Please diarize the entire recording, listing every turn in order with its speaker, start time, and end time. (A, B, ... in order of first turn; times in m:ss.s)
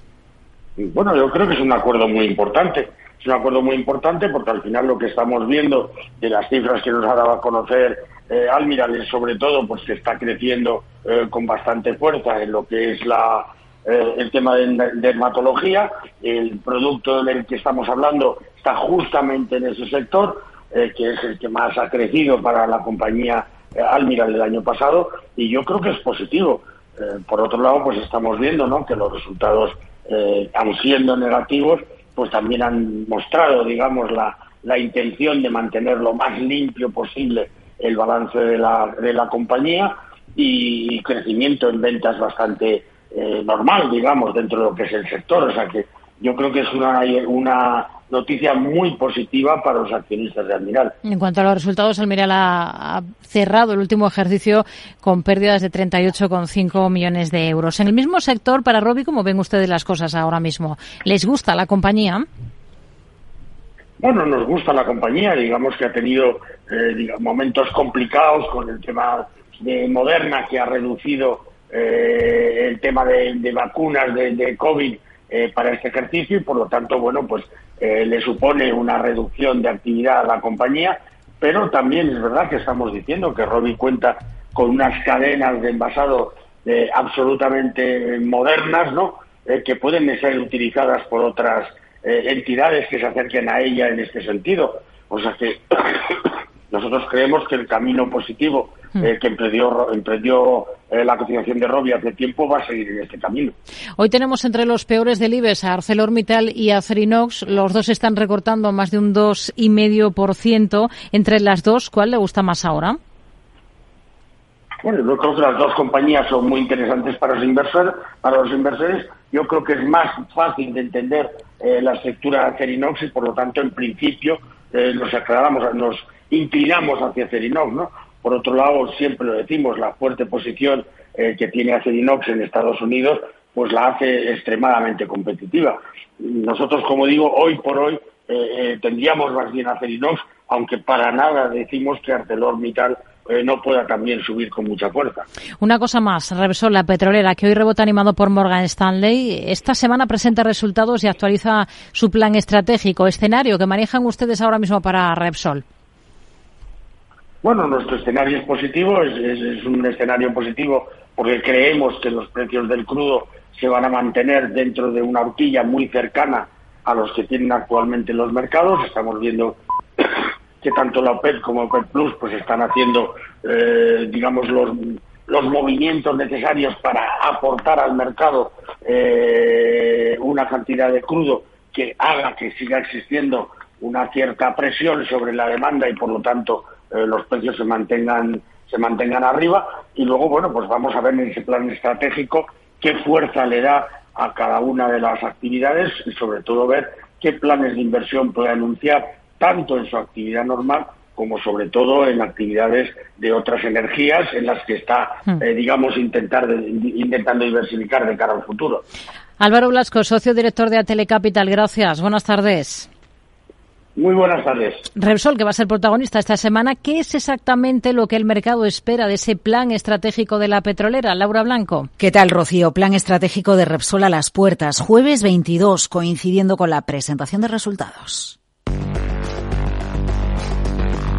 0:00.8-0:50.9 A
0:51.0-1:02.2 B
1:04.0-1:36.0 A
1:36.7-1:43.5 A
1:44.0-1:53.0 B
1:54.8-2:25.2 A
2:25.6-2:35.6 B
2:37.4-2:49.6 A
2:50.6-3:28.8 A
3:29.4-3:32.9 B
3:34.0-3:34.8 A
3:35.0-3:41.9 B
3:42.0-3:48.4 C